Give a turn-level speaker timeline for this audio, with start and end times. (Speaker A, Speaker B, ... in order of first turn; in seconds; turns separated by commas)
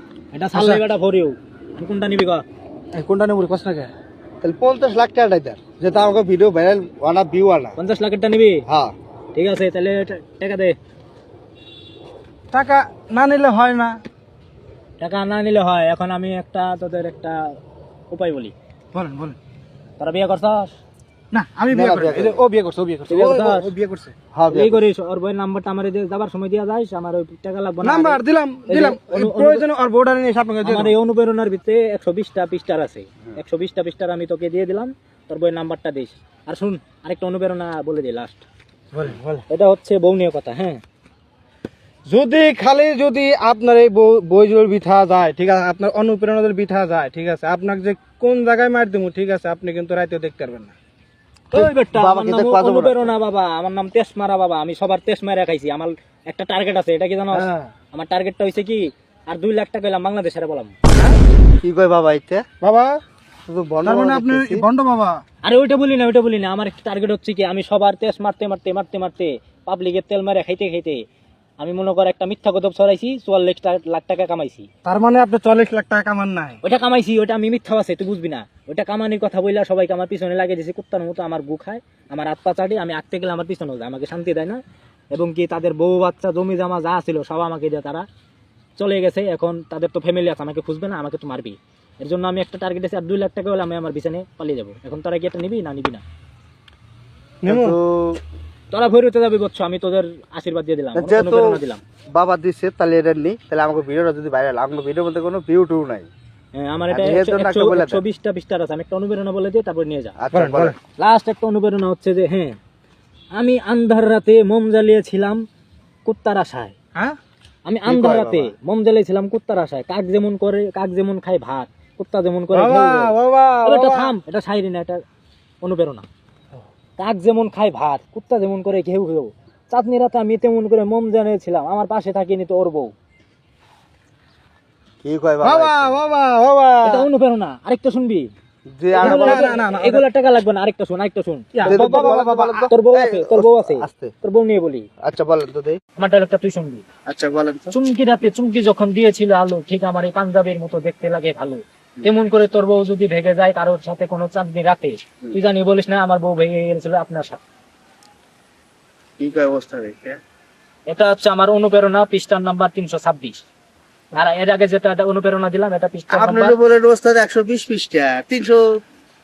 Speaker A: 0.3-2.4, Speaker B: 0.6-0.8, Speaker B: 2.9-3.9, Speaker C: 4.4-7.8, Speaker A: 7.8-8.6, Speaker C: 8.7-8.9, Speaker A: 9.3-10.8, Speaker B: 12.5-14.0, Speaker A: 15.0-17.6, Speaker A: 18.1-18.5, Speaker B: 18.9-19.4, Speaker A: 20.0-20.7, Speaker B: 21.3-24.1, Speaker C: 21.7-22.4, Speaker A: 23.1-23.7, Speaker C: 24.3-24.8, Speaker A: 24.5-29.6, Speaker B: 27.8-30.9, Speaker A: 30.6-38.4, Speaker B: 38.9-39.5, Speaker A: 39.5-40.8, Speaker B: 42.1-50.8, Speaker A: 51.5-60.8, Speaker C: 51.5-53.1, Speaker B: 57.3-57.7, Speaker C: 61.6-62.5, Speaker B: 62.6-63.0, Speaker C: 63.5-64.7, Speaker B: 63.8-65.2, Speaker A: 65.4-71.0, Speaker A: 71.6-74.7, Speaker B: 74.8-76.6, Speaker A: 76.6-84.6, Speaker A: 85.1-88.1, Speaker A: 88.8-96.0, Speaker B: 97.4-97.8, Speaker C: 97.5-98.2, Speaker A: 98.7-101.8, Speaker C: 101.0-101.6, Speaker C: 102.1-106.1, Speaker A: 106.6-110.2, Speaker C: 106.9-108.0, Speaker C: 110.2-110.8, Speaker B: 110.3-110.8, Speaker A: 111.0-112.6, Speaker A: 113.3-115.4, Speaker A: 116.0-116.8, Speaker A: 117.7-123.1, Speaker C: 117.9-118.5, Speaker B: 122.5-124.1, Speaker A: 123.7-125.0, Speaker A: 125.6-126.1, Speaker A: 127.0-132.9, Speaker C: 135.0-136.0, Speaker B: 135.4-137.1, Speaker A: 136.8-138.3, Speaker C: 138.8-139.6, Speaker B: 138.9-140.1, Speaker A: 139.0-142.1, Speaker B: 141.6-142.7, Speaker C: 141.7-144.1, Speaker A: 142.7-144.9, Speaker C: 145.0-145.8, Speaker A: 146.0-146.8, Speaker C: 147.1-147.7, Speaker A: 147.7-157.4, Speaker C: 159.2-160.2, Speaker A: 160.9-163.4, Speaker A: 164.1-166.6, Speaker C: 166.1-168.8